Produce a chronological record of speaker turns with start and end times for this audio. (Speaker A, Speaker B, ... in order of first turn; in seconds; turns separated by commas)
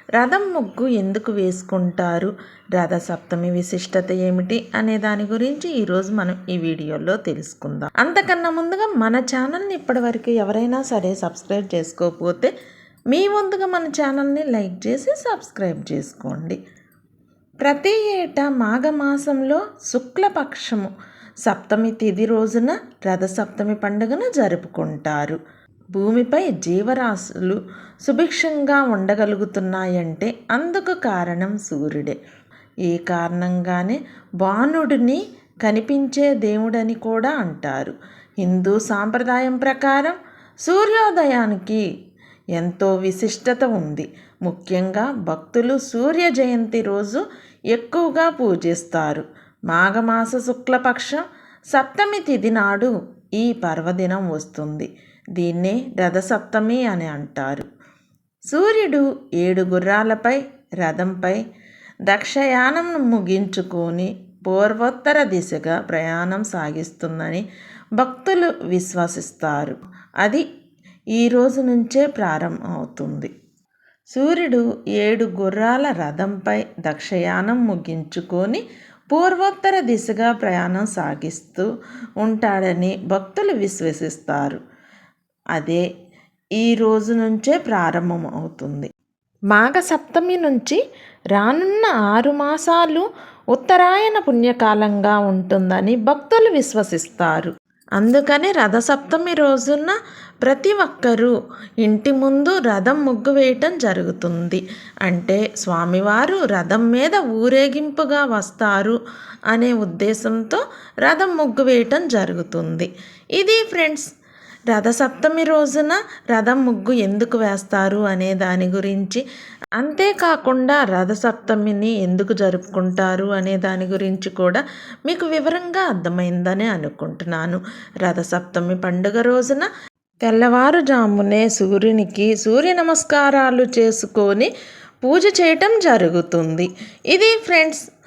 Speaker A: 0.2-12.5, Speaker A: 13.1-16.6, Speaker A: 17.6-20.9, Speaker A: 21.4-25.4, Speaker A: 25.9-32.2, Speaker A: 32.8-41.8, Speaker A: 42.5-57.7, Speaker A: 58.5-61.4, Speaker A: 62.0-67.4, Speaker A: 68.0-70.4, Speaker A: 71.2-73.3, Speaker A: 74.1-81.7, Speaker A: 82.2-84.6, Speaker A: 85.5-85.8, Speaker A: 86.6-88.9, Speaker A: 89.5-90.8, Speaker A: 91.3-109.0, Speaker A: 109.5-114.1, Speaker A: 114.7-119.2, Speaker A: 119.8-129.7, Speaker A: 130.2-134.5, Speaker A: 135.0-137.8